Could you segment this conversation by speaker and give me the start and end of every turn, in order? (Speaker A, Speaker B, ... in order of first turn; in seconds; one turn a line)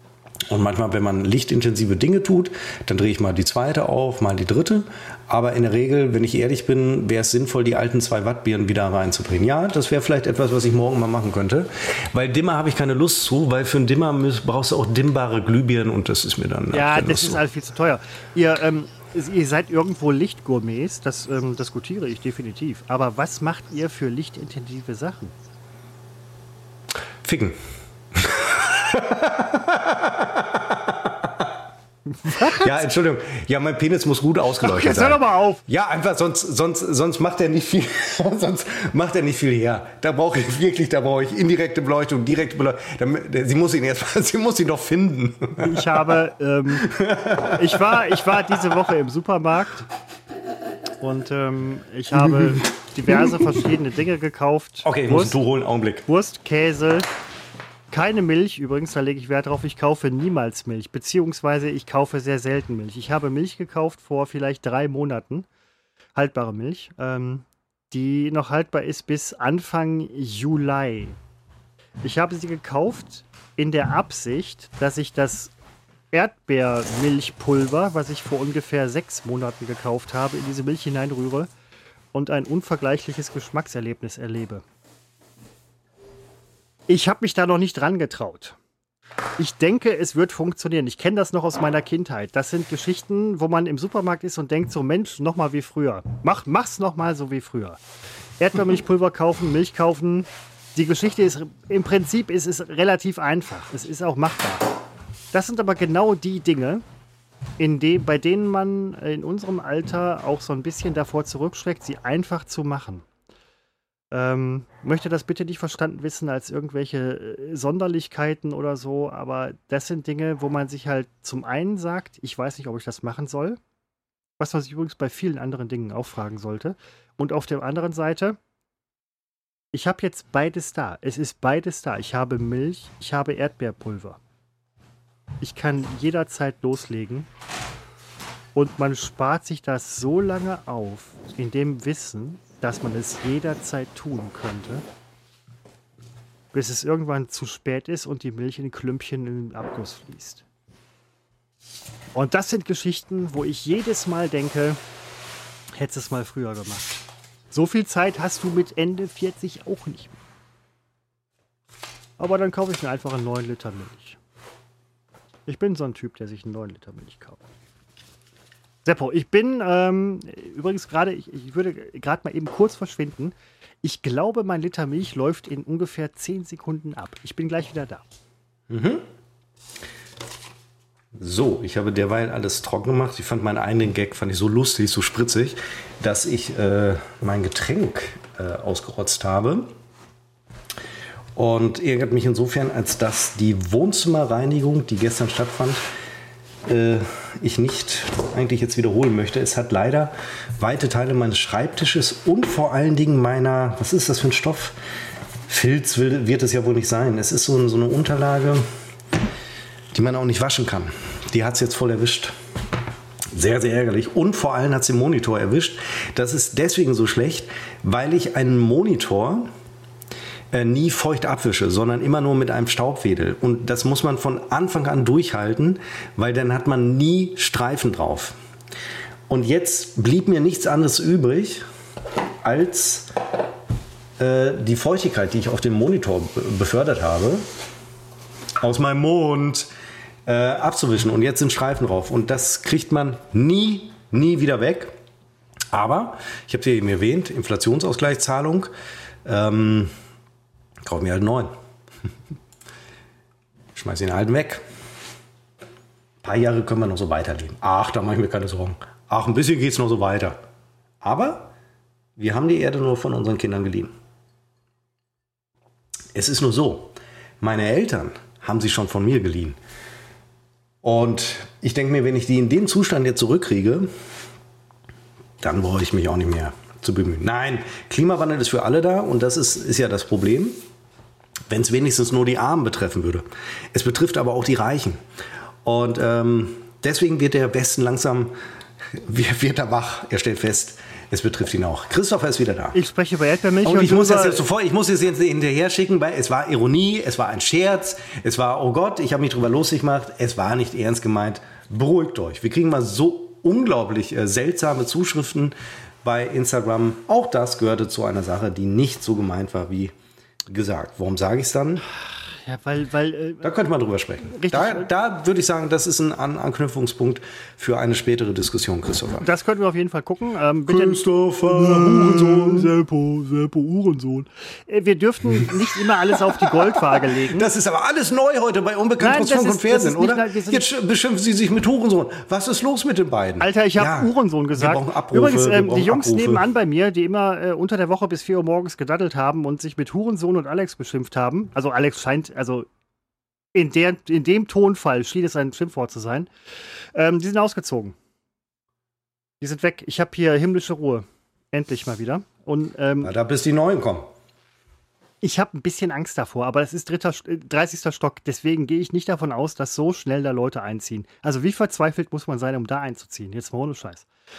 Speaker A: 0.5-17.4
Speaker B: 16.7-25.3
Speaker A: 27.2-27.6
Speaker A: 28.1-31.5
Speaker B: 32.1-32.8
Speaker A: 32.3-46.0
Speaker B: 34.6-35.6
Speaker B: 45.6-46.9
Speaker A: 46.8-48.4
Speaker B: 47.5-49.9
Speaker B: 51.0-55.4
Speaker A: 52.2-53.6
Speaker A: 54.8-56.0
Speaker B: 56.1-57.1
Speaker B: 57.9-65.5
Speaker B: 66.1-71.2
Speaker B: 72.0-75.5
Speaker B: 76.1-81.5
Speaker B: 82.1-84.6
Speaker B: 86.9-88.6
Speaker B: 89.4-97.8
Speaker B: 98.4-104.7
Speaker B: 105.3-106.8
Speaker B: 107.6-113.0
Speaker B: 114.1-123.6
Speaker B: 124.4-128.4
Speaker B: 129.7-134.2
Speaker B: 135.4-137.3
Speaker B: 138.5-144.8
Speaker B: 146.5-150.4
Speaker B: 152.1-154.8
Speaker B: 155.7-160.1
Speaker B: 162.2-164.2
Speaker B: 165.5-167.4
Speaker B: 168.8-178.0
Speaker A: 178.7-179.0
Speaker A: 181.2-189.7
Speaker A: 191.3-195.8
Speaker A: 196.7-204.8
Speaker A: 205.5-208.6
Speaker A: 209.9-212.3
Speaker A: 213.3-219.5
Speaker A: 220.5-228.3
Speaker A: 229.3-231.6
Speaker A: 232.4-233.1
Speaker A: 234.2-237.4
Speaker A: 238.6-239.7
Speaker A: 240.3-244.9
Speaker A: 245.7-248.7
Speaker A: 249.2-249.9
Speaker A: 250.8-251.5
Speaker A: 253.8-254.6
Speaker A: 256.2-260.4
Speaker A: 261.0-261.5
Speaker A: 262.2-263.9
Speaker A: 266.1-269.6
Speaker A: 270.8-273.9
Speaker A: 275.4-280.6
Speaker A: 281.5-285.0
Speaker A: 285.6-288.3
Speaker A: 288.9-292.8
Speaker B: 292.7-294.4
Speaker A: 293.6-309.9
Speaker A: 310.5-311.9
Speaker B: 312.2-313.5
Speaker A: 313.4-319.3
Speaker B: 314.3-314.9
Speaker B: 319.2-327.5
Speaker A: 320.7-322.7
Speaker A: 325.4-336.4
Speaker B: 329.0-330.7
Speaker B: 333.4-342.7
Speaker B: 343.5-346.3
Speaker B: 346.9-347.9
Speaker B: 349.4-353.1
Speaker A: 353.0-354.1
Speaker B: 355.2-364.1